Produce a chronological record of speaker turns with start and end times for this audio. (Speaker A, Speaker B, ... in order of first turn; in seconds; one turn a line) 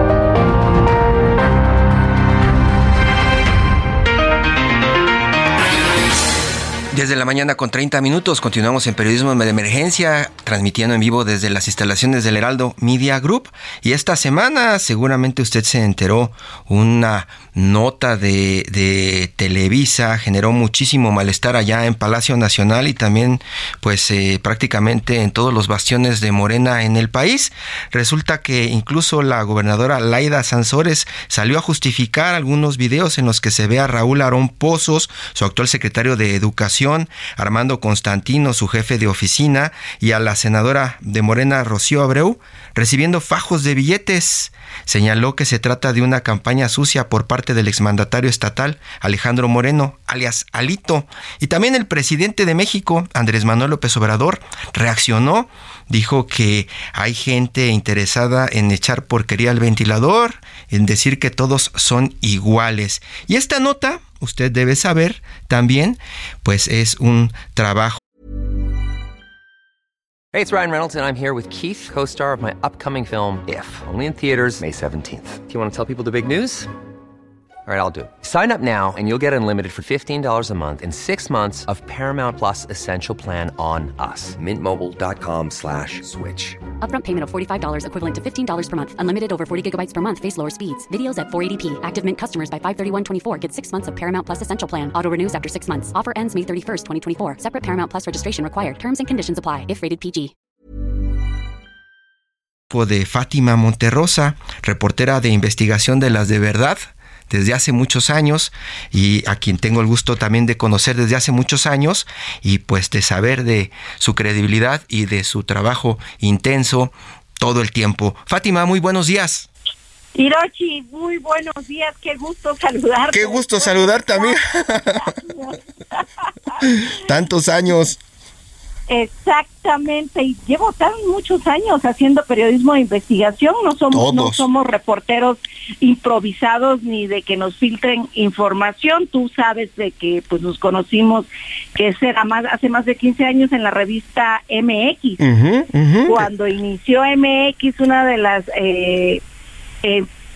Speaker A: 6.9-68.0
Speaker B: 70.3-76.7
Speaker B: 77.7-86.6
Speaker C: 86.8-100.3
Speaker A: 102.7-119.5
Speaker D: 120.1-126.6
Speaker A: 123.1-125.2
Speaker A: 126.6-128.0
Speaker D: 128.9-145.2
Speaker A: 133.9-134.5
Speaker A: 145.2-146.3
Speaker D: 146.1-149.2